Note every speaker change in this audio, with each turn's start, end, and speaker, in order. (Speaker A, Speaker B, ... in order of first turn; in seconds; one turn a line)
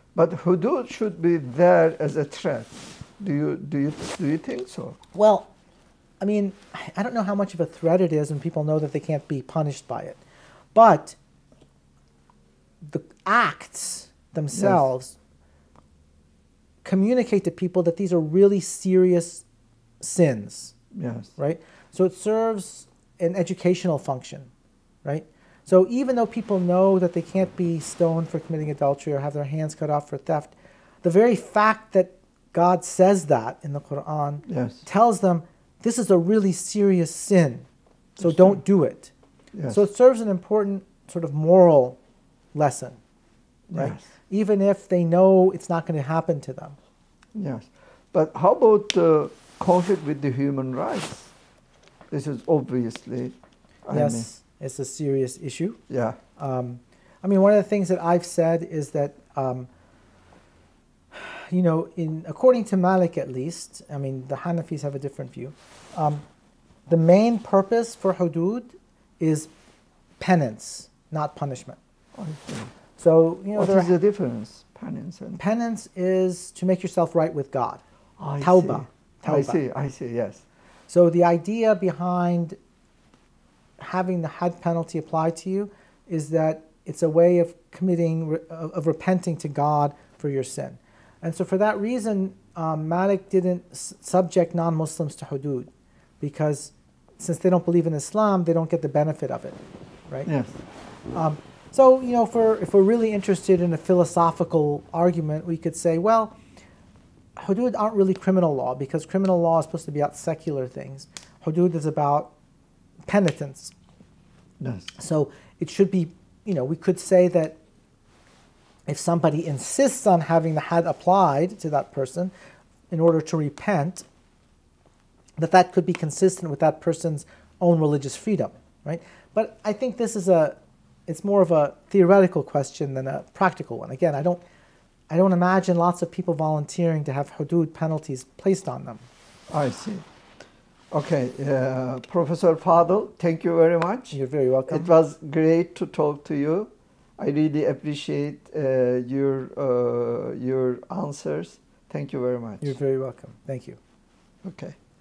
Speaker A: 0.1-5.0
Speaker B: 5.1-5.5
Speaker B: 6.2-10.2
Speaker B: 10.7-11.2
Speaker B: 12.8-15.2
Speaker A: 14.5-14.8
Speaker B: 16.8-19.4
Speaker B: 20.0-20.7
Speaker A: 20.9-21.3
Speaker B: 21.4-24.5
Speaker B: 25.0-37.6
Speaker A: 34.5-34.8
Speaker A: 38.2-38.6
Speaker B: 38.2-39.1
Speaker A: 39.5-39.8
Speaker B: 39.7-42.0
Speaker B: 42.5-43.0
Speaker A: 43.7-44.1
Speaker B: 43.7-46.8
Speaker A: 47.3-51.3
Speaker A: 52.1-53.3
Speaker A: 53.9-54.3
Speaker B: 53.9-55.8
Speaker A: 55.9-56.2
Speaker B: 56.4-59.7
Speaker B: 61.1-66.2
Speaker B: 66.9-69.5
Speaker B: 70.2-71.8
Speaker A: 72.2-72.7
Speaker B: 73.0-73.9
Speaker A: 73.5-75.4
Speaker B: 75.4-77.8
Speaker A: 78.2-80.4
Speaker B: 78.4-79.6
Speaker B: 80.9-82.6
Speaker B: 83.8-95.7
Speaker B: 96.2-99.6
Speaker A: 100.2-100.5
Speaker B: 101.1-106.3
Speaker B: 107.4-112.3
Speaker B: 113.1-113.7
Speaker A: 114.6-114.9
Speaker B: 115.0-117.6
Speaker B: 118.9-122.3
Speaker B: 122.9-124.0
Speaker B: 125.4-134.4
Speaker B: 135.1-139.0
Speaker A: 139.5-140.0
Speaker A: 140.9-144.2
Speaker B: 144.1-144.9
Speaker A: 144.7-152.7
Speaker B: 152.6-153.8
Speaker A: 154.4-154.8